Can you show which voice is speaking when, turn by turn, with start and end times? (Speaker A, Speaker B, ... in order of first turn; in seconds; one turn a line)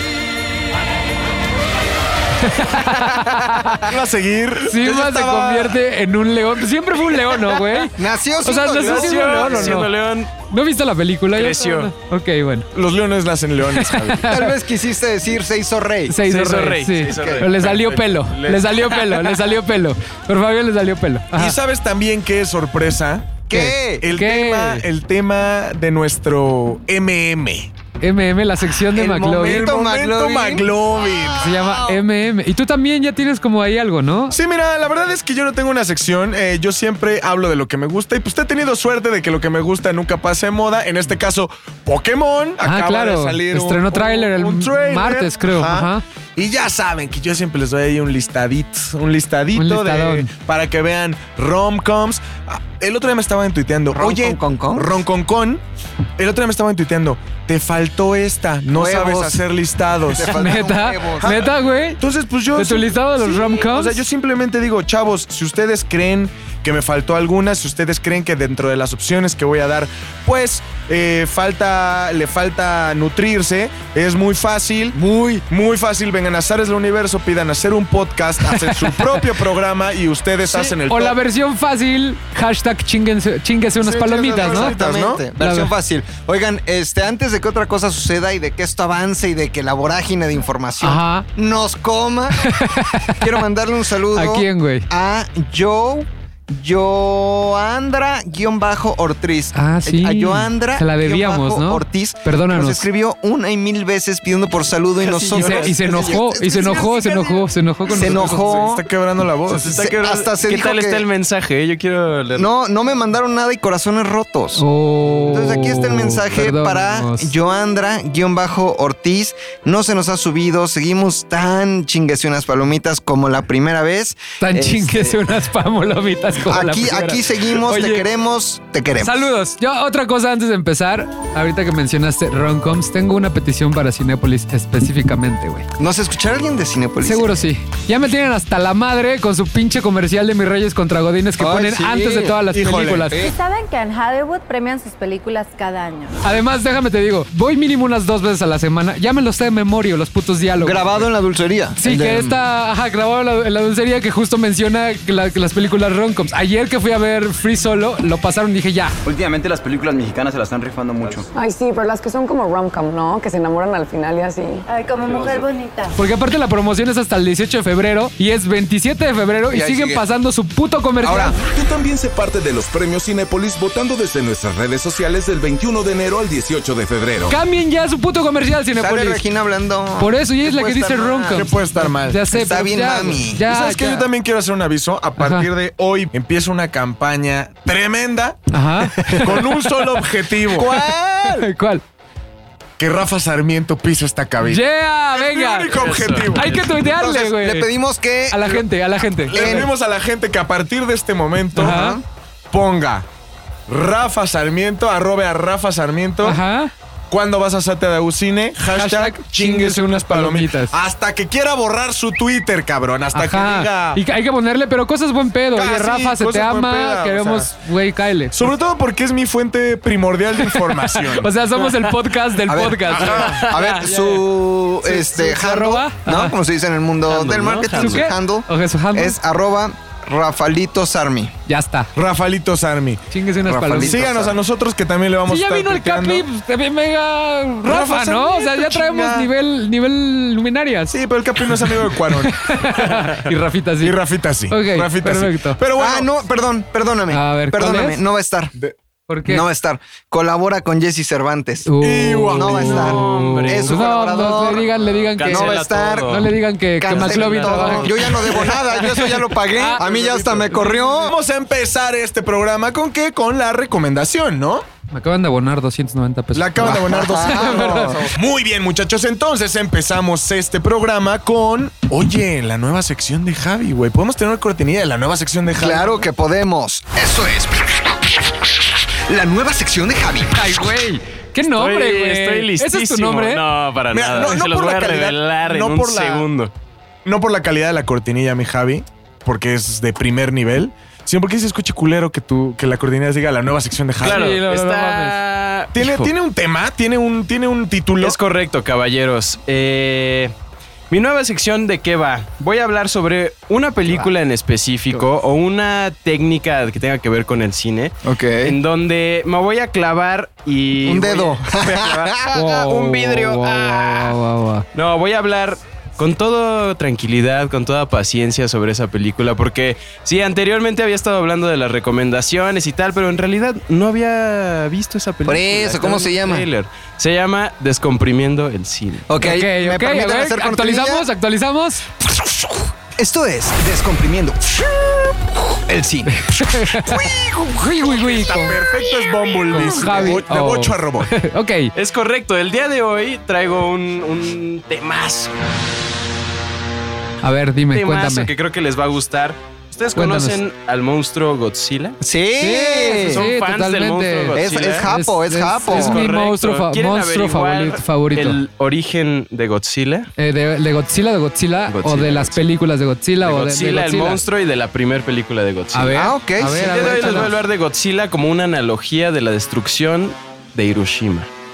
Speaker A: 2.4-3.6
Speaker B: 3.2-3.8
Speaker C: 3.9-5.8
Speaker A: 4.7-9.9
Speaker D: 8.0-9.9
Speaker B: 8.7-10.3
Speaker A: 10.5-12.7
Speaker B: 11.3-11.9
Speaker C: 12.7-14.2
Speaker A: 13.8-14.6
Speaker D: 14.2-16.2
Speaker A: 16.1-21.6
Speaker B: 16.2-18.2
Speaker D: 17.0-17.4
Speaker C: 17.6-18.7
Speaker B: 18.8-19.3
Speaker C: 21.4-23.4
Speaker D: 23.5-24.1
Speaker A: 23.5-24.9
Speaker C: 24.0-27.7
Speaker A: 28.0-29.7
Speaker D: 28.7-32.0
Speaker C: 29.4-31.5
Speaker A: 31.4-34.4
Speaker C: 34.3-55.6
Speaker A: 42.6-46.0
Speaker A: 49.5-50.3
Speaker D: 53.9-55.0
Speaker C: 56.2-60.6
Speaker D: 58.7-59.5
Speaker D: 60.1-61.4
Speaker A: 60.3-62.0
Speaker C: 61.2-81.2
Speaker A: 62.5-64.0
Speaker A: 78.5-79.3
Speaker A: 80.5-84.8
Speaker C: 83.8-85.2
Speaker D: 84.4-107.3
Speaker A: 85.3-85.7
Speaker A: 90.8-91.3
Speaker A: 92.4-93.3
Speaker A: 94.1-94.9
Speaker A: 99.5-102.8
Speaker B: 105.0-107.4
Speaker A: 105.3-108.6
Speaker D: 107.9-108.8
Speaker B: 107.9-108.5
Speaker C: 108.5-109.7
Speaker B: 109.5-112.5
Speaker D: 109.5-111.1
Speaker D: 112.3-124.9
Speaker A: 114.6-117.3
Speaker A: 124.4-128.1
Speaker D: 126.4-129.2
Speaker A: 129.0-135.7
Speaker D: 135.8-137.4
Speaker A: 137.0-143.2
Speaker D: 141.4-142.4
Speaker C: 142.5-143.3
Speaker E: 143.2-146.2
Speaker A: 146.2-151.0
Speaker D: 150.6-152.4
Speaker A: 151.8-158.9
Speaker F: 159.0-161.3
Speaker G: 161.4-164.7
Speaker E: 164.7-166.0
Speaker F: 165.1-165.4
Speaker A: 166.0-171.4
Speaker D: 169.5-170.0
Speaker C: 171.1-171.3
Speaker H: 171.3-177.4
Speaker A: 177.3-179.2
Speaker D: 178.8-181.5
Speaker A: 180.0-184.1
Speaker C: 181.3-182.2
Speaker D: 182.3-183.4
Speaker C: 183.4-188.4
Speaker A: 185.2-185.5
Speaker A: 188.5-190.0
Speaker C: 189.0-190.8
Speaker D: 190.5-191.5
Speaker A: 191.2-191.8
Speaker C: 192.8-196.6
Speaker A: 194.4-197.7
Speaker B: 195.7-196.6
Speaker D: 196.8-198.7
Speaker A: 198.3-199.7
Speaker C: 199.3-201.9
Speaker D: 199.3-199.7
Speaker A: 201.6-202.0
Speaker D: 201.6-202.0
Speaker C: 202.5-203.1
Speaker C: 203.7-206.4
Speaker A: 206.2-206.7
Speaker C: 207.1-214.0
Speaker A: 208.7-210.8
Speaker A: 213.1-218.5
Speaker C: 215.5-217.5
Speaker C: 218.3-221.3
Speaker A: 220.4-224.2
Speaker D: 222.5-231.3
Speaker C: 222.9-223.4
Speaker A: 224.8-226.3
Speaker B: 227.1-228.1
Speaker A: 227.8-229.2
Speaker A: 231.5-231.9
Speaker C: 232.0-236.3
Speaker A: 233.1-234.1
Speaker D: 233.5-234.4
Speaker A: 235.3-244.0
Speaker C: 237.7-239.3
Speaker C: 240.9-243.2
Speaker C: 243.8-246.1
Speaker A: 244.5-245.6
Speaker D: 245.8-248.5
Speaker A: 247.1-248.0
Speaker A: 249.1-249.4
Speaker D: 249.3-251.7
Speaker A: 251.7-259.8
Speaker C: 251.8-253.0
Speaker D: 252.3-254.7
Speaker B: 252.8-253.9
Speaker B: 255.2-256.3
Speaker D: 255.2-256.3
Speaker D: 256.8-261.1
Speaker B: 256.9-258.3
Speaker C: 259.8-264.6
Speaker A: 260.6-260.8
Speaker A: 264.9-268.0
Speaker C: 266.3-276.0
Speaker D: 266.6-268.2
Speaker D: 275.6-278.5
Speaker D: 279.1-280.7
Speaker A: 280.3-283.4
Speaker B: 281.4-286.5
Speaker C: 283.9-286.3
Speaker C: 287.1-294.4
Speaker B: 294.0-296.1
Speaker A: 294.0-295.2
Speaker C: 295.7-298.2
Speaker B: 298.0-300.3
Speaker B: 300.9-314.2
Speaker D: 308.1-308.6
Speaker D: 310.8-312.2
Speaker A: 312.3-314.7
Speaker B: 314.7-329.1
Speaker D: 325.3-326.5
Speaker D: 329.1-331.1
Speaker A: 329.2-331.8
Speaker D: 332.1-337.0
Speaker A: 336.3-337.0
Speaker C: 336.9-341.1
Speaker A: 337.6-338.6
Speaker A: 339.5-341.7
Speaker D: 339.5-340.2
Speaker B: 341.8-345.3
Speaker A: 347.2-348.3
Speaker B: 347.7-352.0
Speaker A: 349.9-350.4
Speaker D: 352.0-353.2
Speaker A: 352.4-358.4
Speaker B: 353.1-354.9
Speaker D: 354.4-356.0
Speaker B: 355.7-360.1
Speaker A: 360.2-364.2
Speaker B: 361.7-362.4
Speaker B: 363.2-371.3
Speaker A: 365.7-367.3
Speaker D: 365.9-367.3